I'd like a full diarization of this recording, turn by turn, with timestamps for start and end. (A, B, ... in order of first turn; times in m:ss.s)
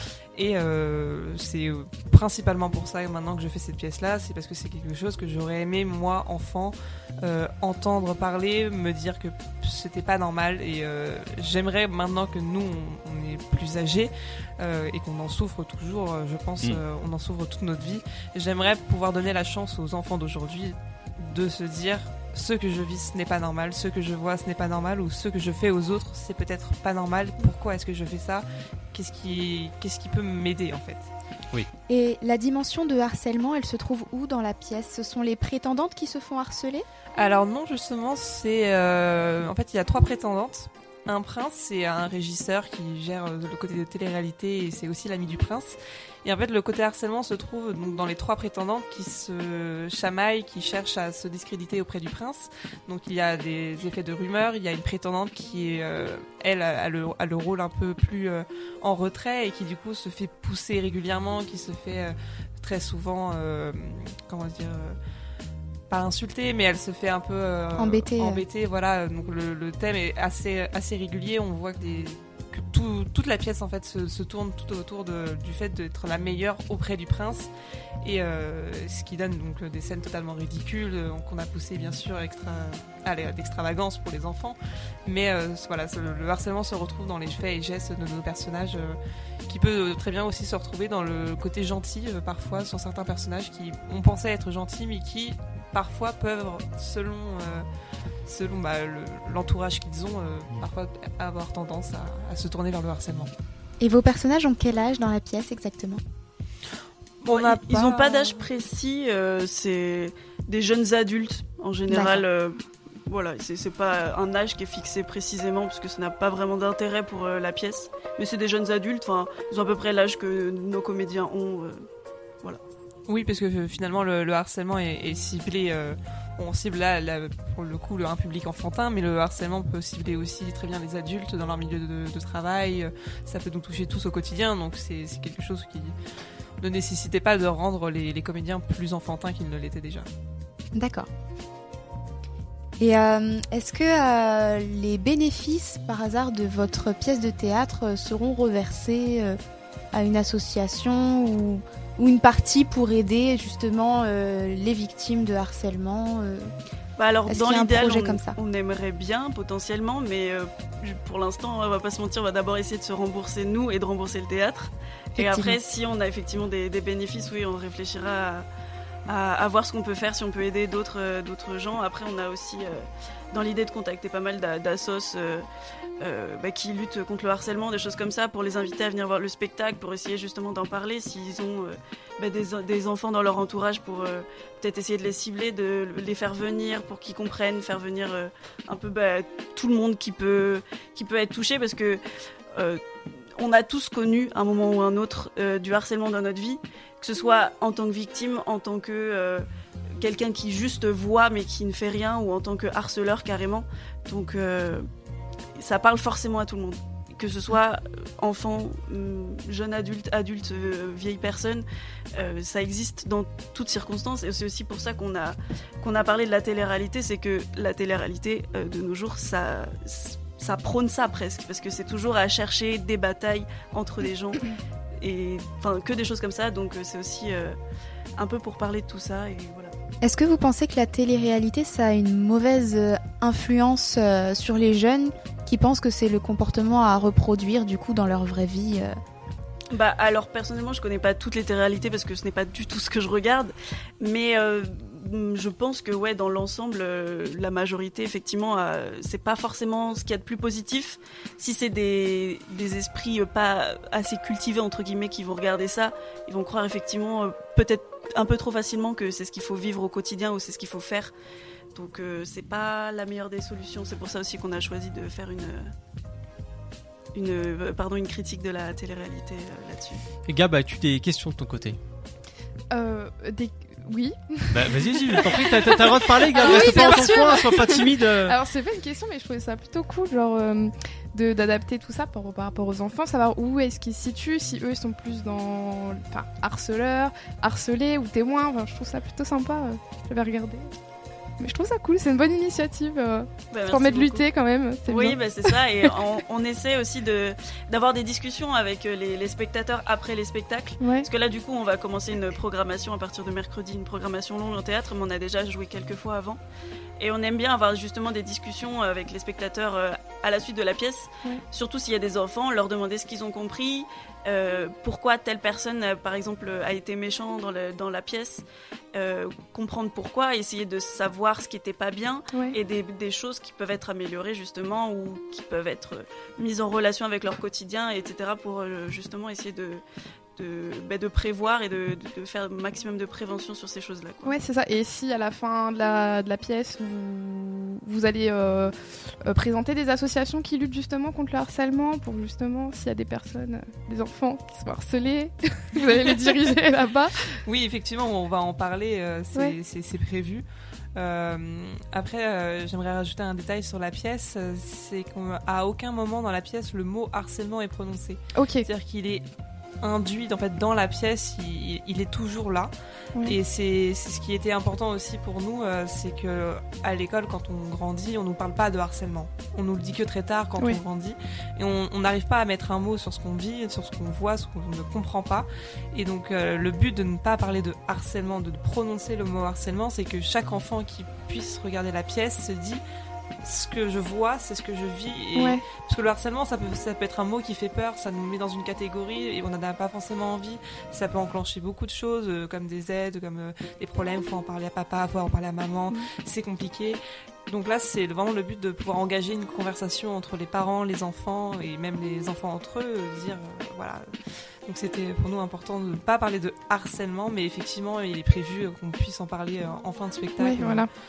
0:00.3-0:31.1 A
0:31.9-0:36.8 B
0:37.1-1:05.0 A
1:05.9-1:17.5 A
1:07.8-1:08.4 B
1:18.0-1:37.6 A
1:38.2-1:43.3 A
1:43.8-1:46.0 B
1:47.2-1:48.4 A
1:47.3-2:01.8 C
1:51.9-1:52.2 B
2:03.1-2:15.9 A
2:16.6-2:20.1 A
2:20.7-2:21.1 B
2:22.8-2:29.4 B
2:29.9-2:36.5 B
2:37.0-2:48.4 C
2:37.3-2:38.4 B
2:45.2-2:45.6 B
2:49.1-2:55.5 C
2:56.0-3:12.0 C
3:12.5-3:12.8 C
3:13.3-3:19.5 C
3:20.0-3:24.9 C
3:25.6-3:47.6 C
3:48.2-3:49.7 C
3:50.0-3:59.0 B
3:59.7-4:21.1 C
4:21.7-4:25.7 C
4:27.1-4:30.0 C
4:30.3-4:31.8 D
4:32.7-4:50.7 E
4:34.5-4:38.4 D
4:36.4-4:37.2 B
4:51.4-4:55.8 E
4:53.5-4:54.3 C
4:54.8-5:06.4 C
5:00.8-5:01.1 E
5:07.0-5:29.8 C
5:22.3-5:22.6 E
5:30.4-5:34.3 C
5:34.2-5:47.4 E
5:47.4-5:59.2 A
5:58.3-5:58.7 E
5:59.8-6:22.8 A
6:23.4-6:44.1 A
6:25.3-6:25.6 E
6:44.6-6:50.9 A
6:50.4-6:50.9 E